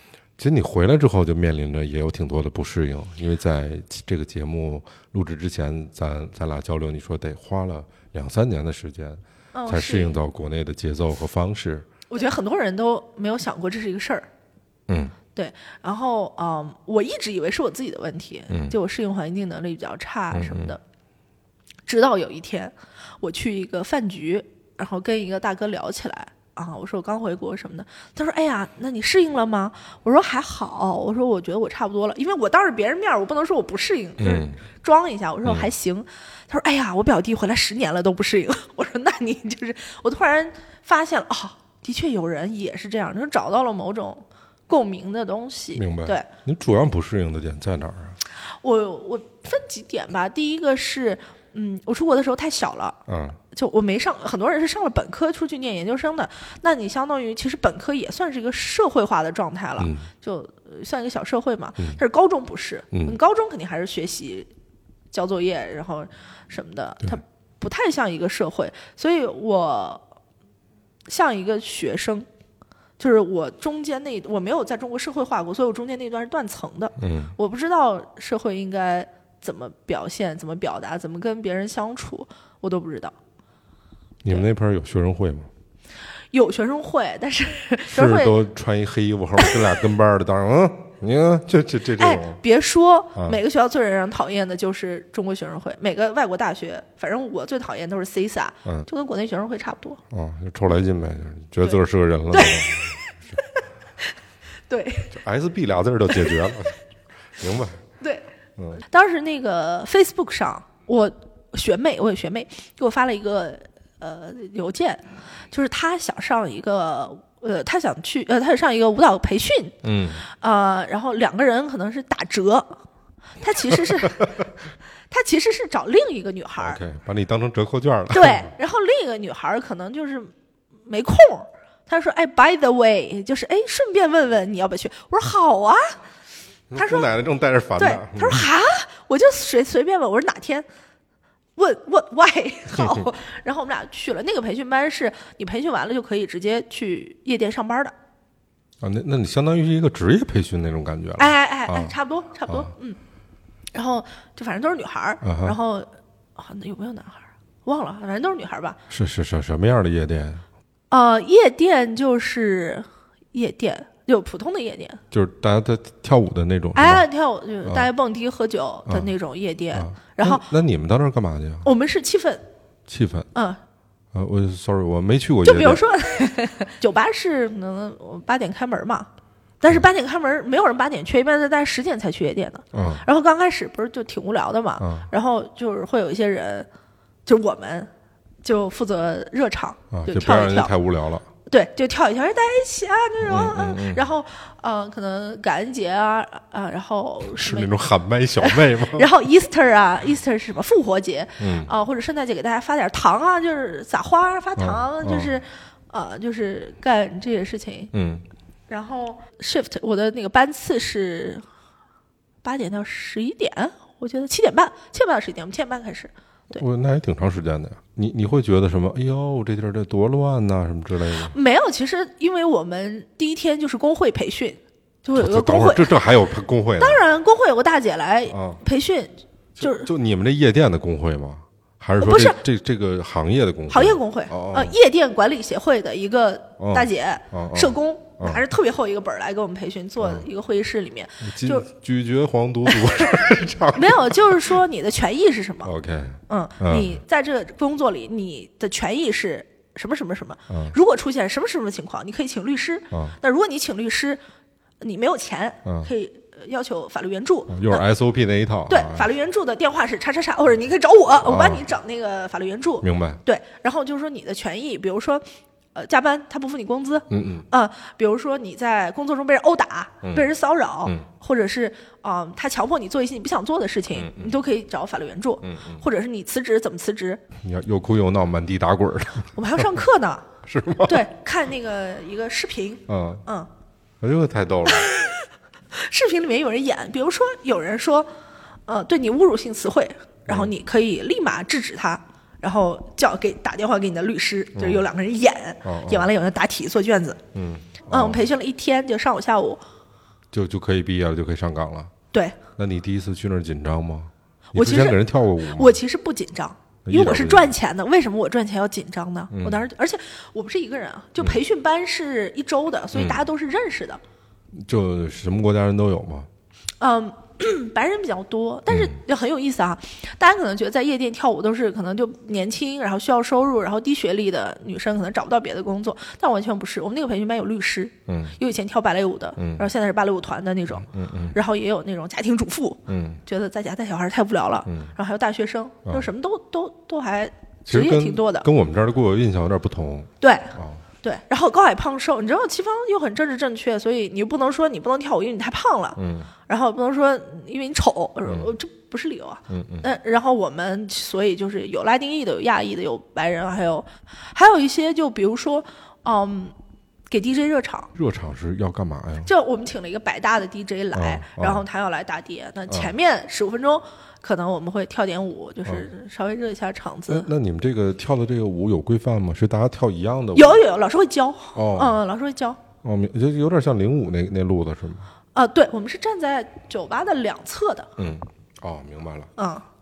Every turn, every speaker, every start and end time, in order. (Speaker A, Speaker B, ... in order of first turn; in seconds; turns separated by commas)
Speaker A: 0.4-11.9, Speaker B: 9.5-10.2, Speaker B: 12.1-14.3, Speaker A: 14.9-15.2, Speaker B: 15.3-20.8, Speaker A: 18.5-18.8, Speaker A: 20.3-20.8, Speaker B: 21.9-46.3, Speaker A: 34.2-34.6, Speaker A: 35.4-35.7, Speaker A: 45.8-48.2, Speaker B: 48.6-53.0, Speaker A: 53.1-53.4, Speaker B: 53.5-64.5, Speaker A: 59.8-60.1, Speaker A: 62.9-63.2, Speaker B: 65.1-70.0, Speaker B: 71.1-72.3, Speaker B: 73.0-83.2, Speaker A: 77.0-77.3, Speaker A: 84.2-85.5, Speaker B: 86.3-88.4, Speaker A: 87.9-92.4, Speaker B: 92.0-100.0, Speaker A: 100.1-103.0, Speaker B: 102.3-103.6, Speaker B: 104.7-105.2, Speaker A: 105.1-106.8, Speaker B: 106.1-106.5, Speaker A: 107.4-107.8, Speaker B: 108.0-122.8, Speaker A: 119.8-120.2, Speaker B: 123.4-124.3, Speaker A: 123.7-124.2, Speaker B: 125.1-126.8, Speaker A: 126.6-128.5, Speaker B: 128.1-130.3, Speaker B: 130.9-136.0, Speaker A: 136.7-138.5, Speaker B: 136.8-137.1, Speaker B: 137.8-140.7, Speaker B: 141.6-147.9, Speaker A: 142.8-143.0, Speaker A: 148.8-151.9, Speaker B: 151.2-153.0, Speaker B: 153.7-158.8, Speaker A: 155.2-155.6, Speaker A: 158.9-160.4, Speaker B: 160.9-165.0, Speaker A: 165.1-167.1, Speaker B: 166.8-170.5, Speaker A: 167.6-167.9, Speaker A: 169.7-171.7, Speaker B: 171.6-172.4, Speaker A: 172.9-173.3, Speaker B: 173.3-173.6, Speaker A: 174.1-175.8, Speaker B: 175.4-179.1, Speaker B: 179.6-186.7, Speaker A: 182.7-183.1, Speaker A: 184.8-185.1, Speaker B: 187.3-187.9, Speaker B: 188.4-190.7, Speaker A: 189.9-191.3, Speaker B: 191.5-197.7, Speaker A: 193.2-194.1, Speaker A: 197.3-199.1, Speaker B: 198.4-207.9, Speaker A: 201.4-201.7, Speaker A: 204.6-205.4, Speaker A: 207.9-208.2, Speaker B: 208.7-211.4, Speaker B: 212.4-216.6, Speaker A: 216.5-221.3, Speaker B: 221.3-226.0, Speaker A: 225.2-227.0, Speaker B: 226.8-229.9, Speaker A: 228.3-228.6, Speaker A: 229.6-234.8, Speaker B: 232.0-232.4, Speaker B: 233.7-241.7, Speaker A: 236.6-238.4, Speaker A: 240.0-240.3, Speaker A: 241.2-244.6, Speaker B: 242.7-243.0, Speaker B: 243.7-245.7, Speaker A: 245.6-247.0, Speaker B: 246.3-254.2, Speaker A: 250.5-250.8, Speaker A: 252.9-253.2, Speaker B: 254.8-257.9, Speaker A: 255.7-255.9, Speaker A: 257.5-259.1, Speaker B: 258.7-277.2, Speaker A: 261.2-261.6, Speaker A: 262.8-263.2, Speaker A: 267.1-267.5, Speaker A: 270.0-270.3, Speaker A: 273.9-274.4, Speaker A: 275.4-275.8, Speaker A: 277.4-279.7, Speaker B: 279.4-280.3, Speaker A: 280.4-281.1, Speaker B: 280.9-283.5, Speaker A: 282.9-283.2, Speaker A: 284.0-284.9, Speaker B: 284.7-288.1, Speaker B: 288.7-297.2, Speaker A: 290.3-290.5, Speaker A: 294.6-294.9, Speaker A: 295.6-296.1, Speaker A: 297.3-298.3, Speaker B: 297.9-299.6, Speaker A: 300.3-301.9, Speaker A: 302.6-305.8, Speaker B: 304.5-314.0, Speaker A: 306.9-307.5, Speaker A: 309.3-309.7, Speaker A: 312.9-313.2, Speaker A: 314.5-316.3, Speaker B: 316.8-338.5, Speaker A: 318.7-319.0, Speaker A: 328.1-328.4, Speaker A: 329.4-329.7, Speaker A: 330.8-331.4, Speaker A: 332.9-333.2, Speaker A: 334.7-334.9, Speaker A: 337.7-340.8, Speaker B: 340.2-356.5, Speaker A: 346.0-346.3, Speaker A: 348.3-348.5, Speaker A: 349.5-349.9, Speaker B: 357.1-357.9, Speaker A: 357.9-359.3, Speaker B: 359.2-367.3, Speaker A: 360.9-361.6, Speaker A: 362.7-362.9, Speaker A: 367.1-370.6, Speaker B: 370.4-372.6, Speaker A: 371.6-372.0, Speaker A: 372.8-375.1, Speaker B: 375.3-377.9, Speaker A: 378.0-379.3, Speaker B: 379.4-379.6